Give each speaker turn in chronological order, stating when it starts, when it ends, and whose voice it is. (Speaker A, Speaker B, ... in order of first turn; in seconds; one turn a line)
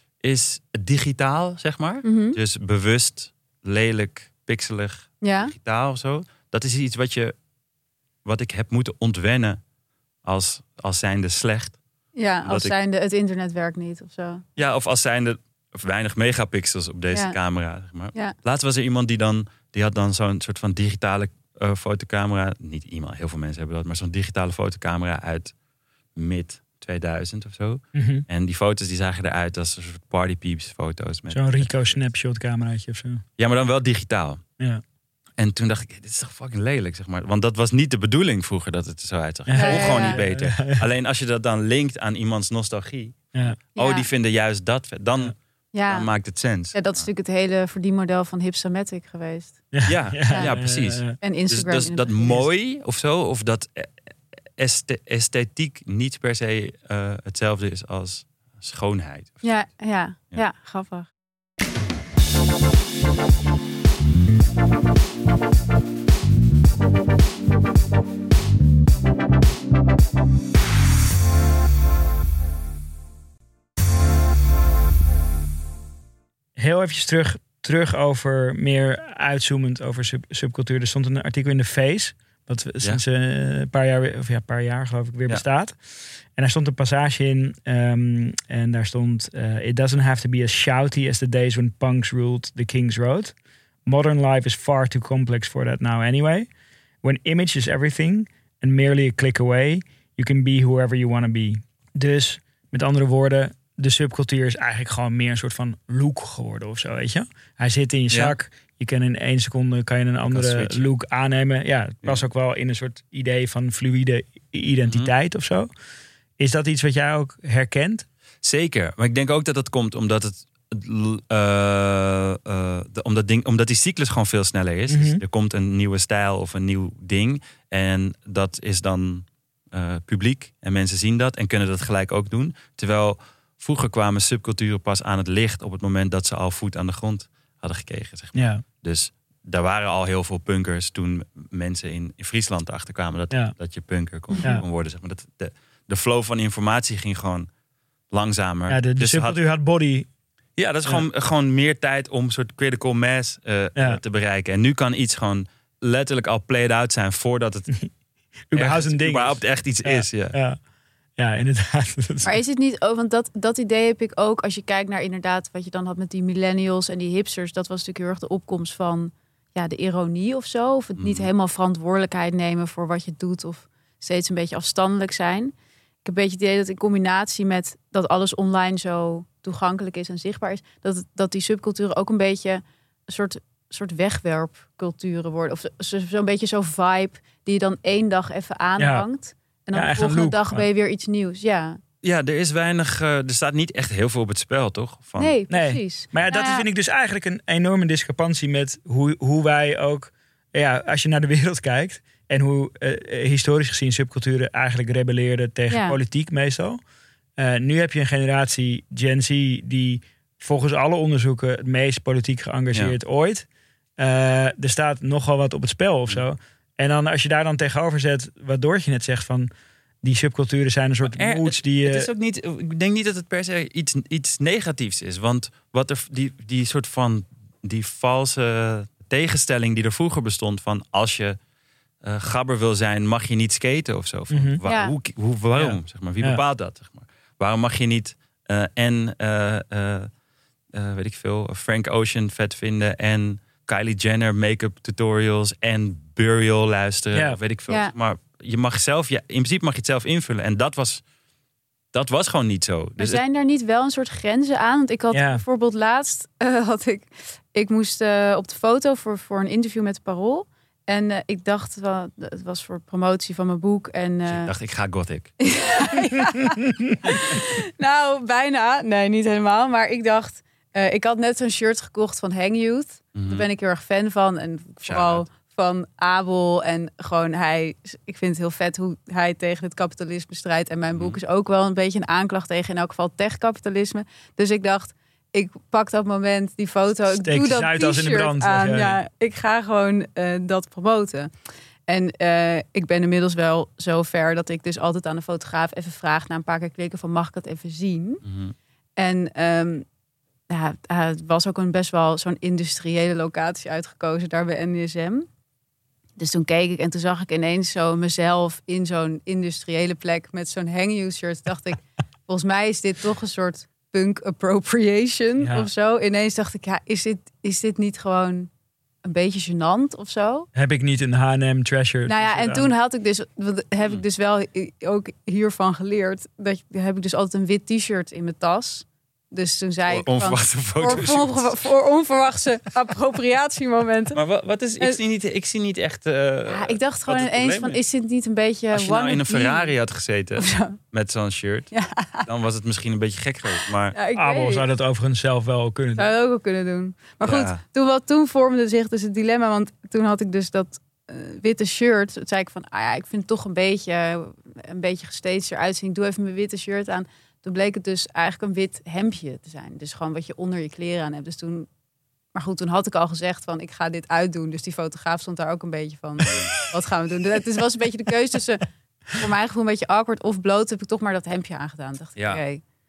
Speaker A: 0.2-7.3
Speaker B: 2.0-2.4
Speaker B: 5.2-5.5
Speaker A: 8.2-9.6
Speaker A: 10.2-11.8
Speaker B: 12.2-14.4
Speaker A: 12.4-12.8
Speaker A: 14.6-25.5
Speaker A: 26.2-32.0
Speaker C: 27.9-28.2
Speaker C: 31.3-33.2
Speaker A: 33.4-34.4
Speaker A: 35.4-45.4
Speaker C: 39.5-40.8
Speaker B: 39.5-40.2
Speaker B: 43.8-44.1
Speaker B: 45.7-46.1
Speaker A: 45.9-47.1
Speaker B: 46.7-49.6
Speaker C: 49.7-51.2
Speaker A: 49.9-53.9
Speaker B: 51.2-52.4
Speaker A: 54.6-59.4
Speaker B: 59.4-61.1
Speaker C: 76.6-85.8
Speaker C: 86.3-93.3
Speaker C: 93.9-96.5
Speaker C: 97.0-115.7
Speaker A: 108.1-108.4
Speaker A: 110.3-110.9
Speaker C: 116.4-118.1
Speaker A: 118.4-147.5
Speaker C: 124.9-125.2
Speaker C: 138.3-138.6
Speaker B: 144.3-144.6
Speaker A: 148.1-149.4
Speaker C: 148.7-150.1
Speaker A: 150.6-157.8
Speaker C: 153.8-154.0
Speaker C: 158.5-160.6
Speaker A: 158.5-160.4
Speaker C: 161.2-162.4
Speaker B: 162.2-175.5
Speaker A: 171.0-171.3
Speaker B: 176.0-191.8
Speaker C: 188.8-189.1
Speaker C: 189.7-190.7
Speaker A: 192.0-195.3
Speaker B: 195.2-196.7
Speaker C: 195.5-206.8
Speaker B: 205.7-206.0
Speaker C: 207.4-219.5
Speaker C: 220.0-222.1
Speaker A: 221.0-231.4
Speaker A: 232.0-240.1
Speaker C: 234.3-234.6
Speaker B: 234.6-234.9
Speaker C: 235.6-236.4
Speaker A: 240.7-251.0
Speaker C: 247.1-247.4
Speaker A: 251.9-253.2
Speaker B: 253.0-264.5
Speaker C: 255.1-255.4
Speaker A: 264.3-265.3
Speaker B: 265.4-291.3
Speaker A: 273.2-273.5
Speaker A: 274.8-275.2
Speaker A: 280.9-281.2
Speaker C: 287.1-289.0
Speaker B: 291.9-298.2
Speaker A: 298.2-298.6
Speaker B: 299.0-299.9
Speaker B: 300.5-305.3
Speaker B: 306.2-318.5
Speaker C: 315.4-315.7
Speaker B: 319.0-320.5
Speaker C: 320.6-322.7
Speaker B: 322.1-334.2
Speaker A: 329.9-331.6
Speaker A: 334.1-337.8
Speaker B: 336.5-339.7
Speaker A: 338.7-341.7
Speaker B: 340.4-340.8
Speaker B: 341.7-342.2
Speaker A: 342.2-344.0
Speaker B: 343.9-344.6
Speaker C: 344.1-346.1
Speaker B: 346.0-361.7
Speaker A: 347.2-347.6
Speaker B: 362.4-372.6
Speaker A: 372.2-372.4